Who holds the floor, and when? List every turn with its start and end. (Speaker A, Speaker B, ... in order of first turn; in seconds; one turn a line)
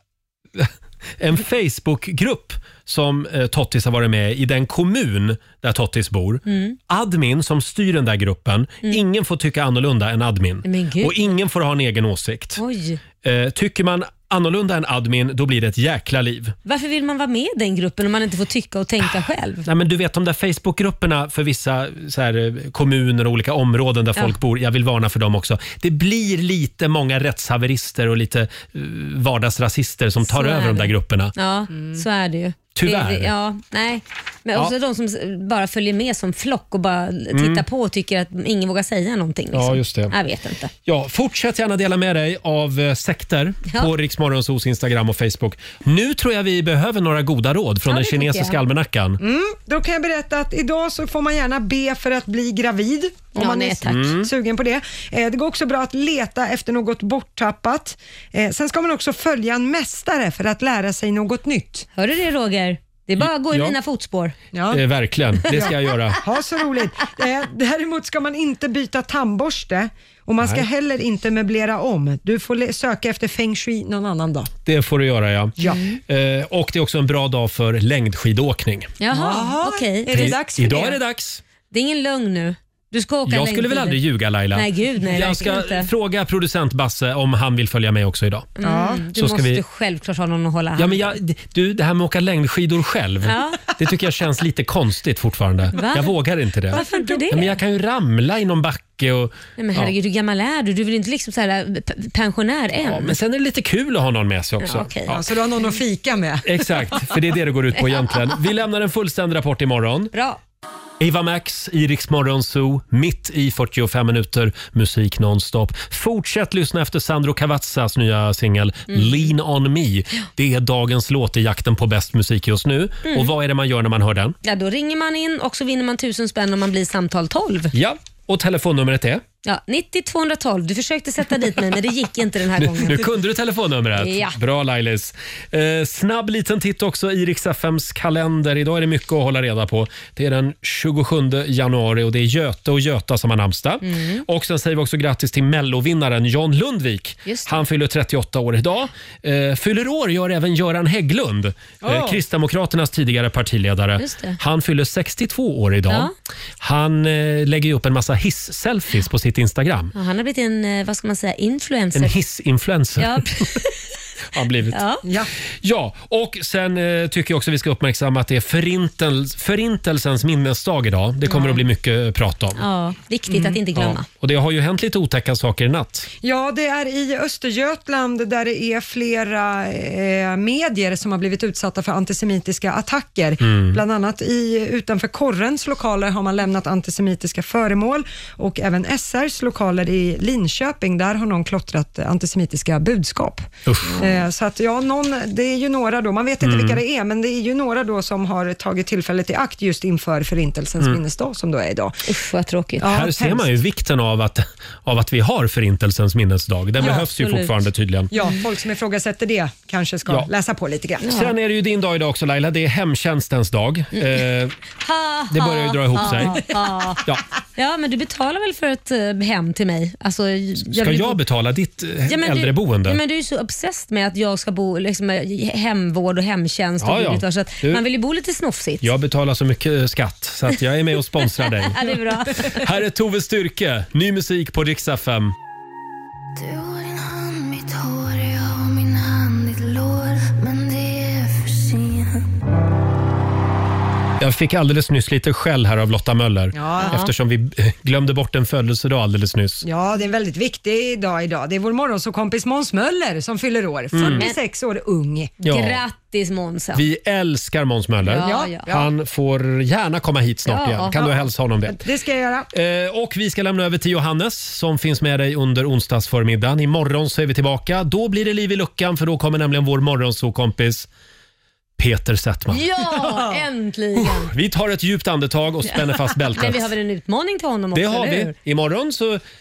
Speaker A: 0.6-12.6
Speaker B: 6.5-6.8
Speaker B: 10.6-11.2
Speaker B: 12.6-13.0
Speaker A: 13.2-16.6
Speaker B: 16.6-19.7
Speaker A: 19.6-31.3
Speaker B: 30.2-40.7
Speaker A: 32.7-33.3
Speaker A: 37.3-37.6
Speaker A: 39.5-40.1
Speaker A: 40.9-49.2
Speaker B: 47.9-48.6
Speaker C: 49.2-61.9
Speaker B: 53.3-54.1
Speaker A: 53.9-54.3
Speaker B: 61.9-64.3
Speaker A: 63.2-63.7
Speaker C: 64.5-64.8
Speaker A: 64.7-66.2
Speaker C: 65.5-74.5
Speaker A: 74.6-78.9
Speaker C: 75.6-75.8
Speaker B: 75.6-76.0
Speaker B: 79.0-80.4
Speaker C: 79.1-81.0
Speaker A: 80.1-81.4
Speaker B: 81.7-84.0
Speaker A: 83.3-88.5
Speaker B: 84.5-85.9
Speaker B: 88.6-91.0
Speaker C: 88.6-89.0
Speaker A: 89.1-89.6
Speaker A: 90.8-99.9
Speaker B: 93.2-93.6
Speaker B: 95.7-96.1
Speaker B: 96.7-97.6
Speaker C: 96.7-97.3
Speaker B: 99.6-103.1
Speaker A: 102.8-105.2
Speaker B: 104.6-105.2
Speaker C: 105.1-106.7
Speaker A: 106.4-110.1
Speaker B: 110.1-110.4
Speaker A: 111.0-124.3
Speaker B: 118.9-119.3
Speaker B: 123.0-123.3
Speaker B: 124.4-127.7
Speaker A: 127.7-129.2
Speaker B: 129.4-133.1
Speaker A: 132.6-159.9
Speaker B: 134.0-134.4
Speaker B: 143.8-144.2
Speaker B: 147.2-147.6
Speaker C: 151.8-152.2
Speaker B: 154.0-154.4
Speaker B: 159.9-162.1
Speaker A: 161.9-163.4
Speaker B: 163.0-163.6
Speaker A: 164.3-164.8
Speaker B: 164.7-165.0
Speaker C: 165.0-165.3
Speaker A: 165.6-172.6
Speaker B: 172.6-174.1
Speaker C: 173.3-173.6
Speaker A: 173.7-176.1
Speaker C: 176.2-193.4
Speaker A: 183.4-183.8
Speaker A: 193.7-194.0
Speaker C: 194.0-202.1
Speaker A: 196.4-196.8
Speaker B: 202.1-202.9
Speaker C: 202.8-203.5
Speaker A: 202.8-208.1
Speaker B: 206.8-207.5
Speaker C: 208.1-211.1
Speaker B: 208.2-208.4
Speaker B: 211.0-211.3
Speaker A: 211.0-214.6
Speaker B: 214.8-217.0
Speaker A: 215.3-216.4
Speaker C: 216.4-216.9
Speaker B: 217.6-221.2
Speaker A: 220.6-223.0
Speaker B: 222.1-228.9
Speaker A: 226.8-227.8
Speaker A: 228.8-231.8
Speaker B: 231.7-232.6
Speaker A: 232.5-235.3
Speaker D: 236.3-242.2
Speaker A: 244.2-249.7
Speaker C: 246.5-247.0
Speaker B: 246.8-247.1
Speaker C: 249.6-255.4
Speaker A: 253.9-254.3
Speaker B: 254.1-254.4
Speaker A: 255.4-255.8
Speaker B: 255.4-256.8
Speaker A: 256.7-261.8
Speaker B: 258.1-258.6
Speaker C: 258.2-258.9
Speaker B: 260.4-261.2
Speaker C: 261.7-262.5
Speaker A: 262.5-270.9
Speaker A: 271.8-272.7
Speaker B: 272.5-274.3
Speaker C: 273.1-273.3
Speaker A: 274.0-276.7
Speaker B: 276.3-278.3
Speaker A: 277.7-279.2